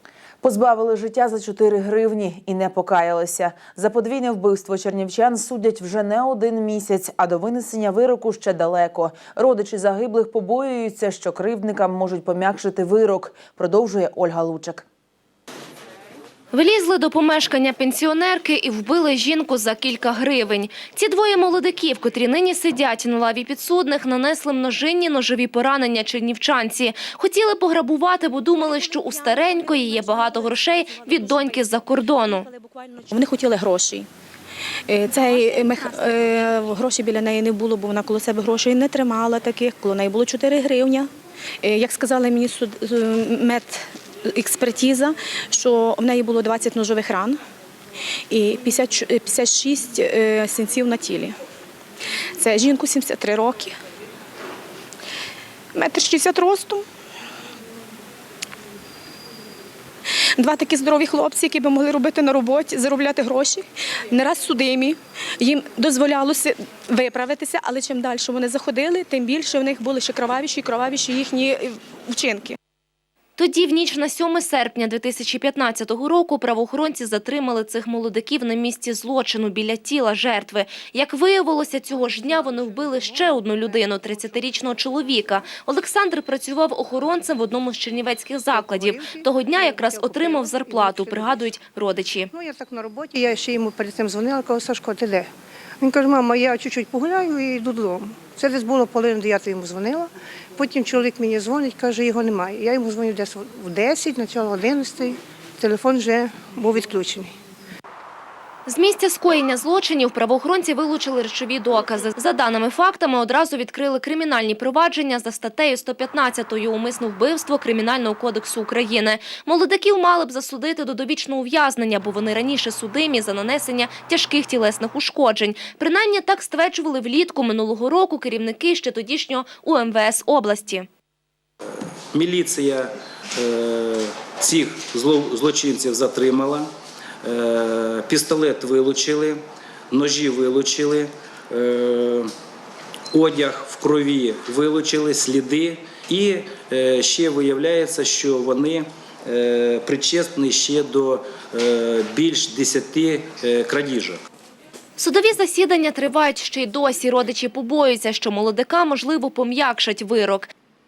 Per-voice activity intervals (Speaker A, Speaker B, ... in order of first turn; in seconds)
Speaker A: 0.4-14.8
Speaker B: 16.5-32.5, 73.4-92.3, 108.7-130.8, 155.0-160.5
Speaker C: 32.5-34.1, 34.9-41.1, 41.6-47.4, 48.3-51.4, 52.4-53.8, 55.7-56.9, 60.4-72.6
Speaker D: 88.5-91.5, 92.3-95.3, 95.8-107.3
Speaker E: 132.1-132.9, 133.4-136.7, 137.2-139.4, 139.9-142.3, 143.1-154.2